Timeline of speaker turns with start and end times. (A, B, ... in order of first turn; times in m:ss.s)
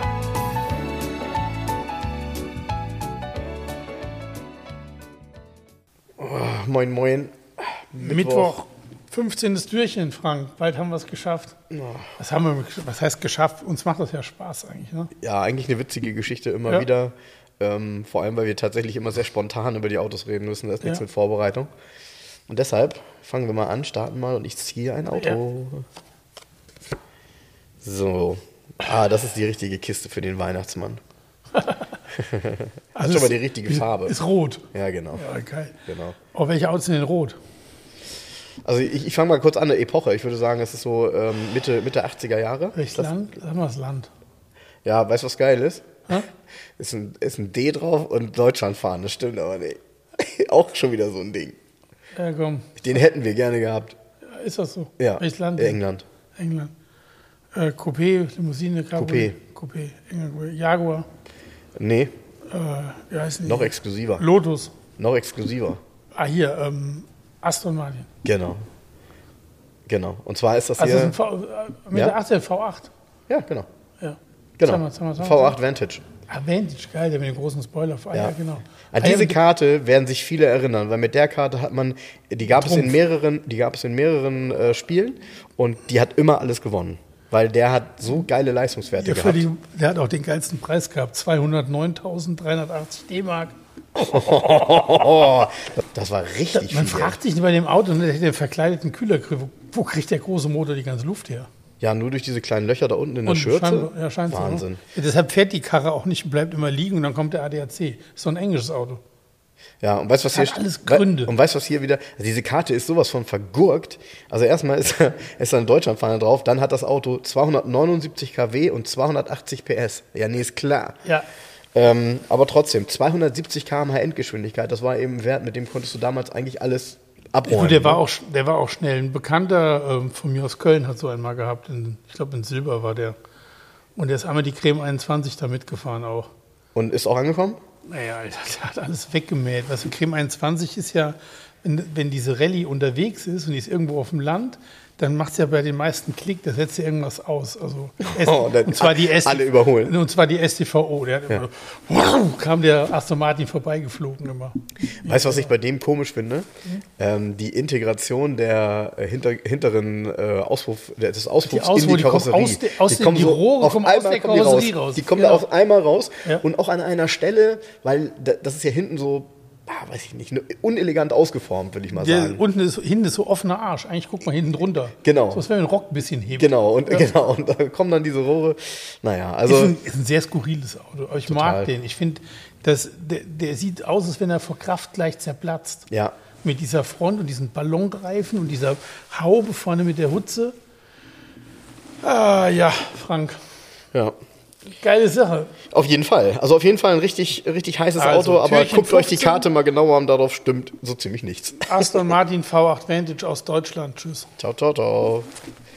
0:06.2-0:08.5 A
0:08.0-0:11.6 B
0:11.7-0:12.1 A
0:12.2-0:15.1 B
0:15.2-0:21.7 A
0:22.5-0:25.8 A
0:27.8-0:31.0 A
0:31.6-0:31.9 B
0:32.1-0:34.2 A
0:33.0-0:34.6 B
0:34.7-0:35.2 A
0:35.1-0:35.8 B
0:35.9-0:36.2 A
0:36.3-0:37.4 B
0:38.6-0:43.1 A
0:42.7-0:44.1 B
0:44.8-0:46.2 A
0:46.8-0:51.6 A
0:52.2-0:52.8 B
0:52.8-0:54.0 A
0:54.3-0:55.8 B
0:55.0-0:56.0 A
0:56.4-0:56.7 B
0:57.5-1:01.1 B
0:59.0-0:59.4 A
1:01.8-1:02.1 A
1:02.5-1:04.7 B
1:03.4-1:04.2 A
1:05.0-1:05.8 A
1:06.2-1:08.1 B
1:08.2-1:08.6 A
1:09.9-1:11.2 A
1:10.8-1:12.9 B
1:13.3-1:13.7 A
1:14.0-1:15.6 B
1:14.6-1:16.0 A
1:16.3-1:19.4 B
1:18.9-1:29.5 A
1:22.5-1:23.0 B
1:29.0-1:33.6 B
1:34.0-1:37.2 A
1:36.5-1:41.5 B
1:41.8-1:44.8 A
1:43.3-1:49.0 B
1:49.8-2:01.0 A
1:50.3-1:51.3 B
2:01.8-2:08.0 A
2:07.5-2:13.2 B
2:14.0-2:16.3 B
2:16.8-2:17.6 A
2:17.9-2:35.5 B
2:28.0-2:30.0 A
2:35.0-2:36.5 A
2:37.0-2:52.4 A
2:41.4-2:45.5 B
2:52.0-2:57.1 B
2:55.0-2:55.4 A
2:56.4-2:59.8 A
2:59.5-3:05.9 B
3:01.2-3:01.7 A
3:05.9-3:06.2 A
3:06.4-3:10.6 B
3:12.0-3:13.4 B
3:14.7-3:15.5 B
3:15.7-3:22.0 A
3:18.0-3:19.5 B
3:21.6-3:24.3 B
3:24.4-3:25.3 A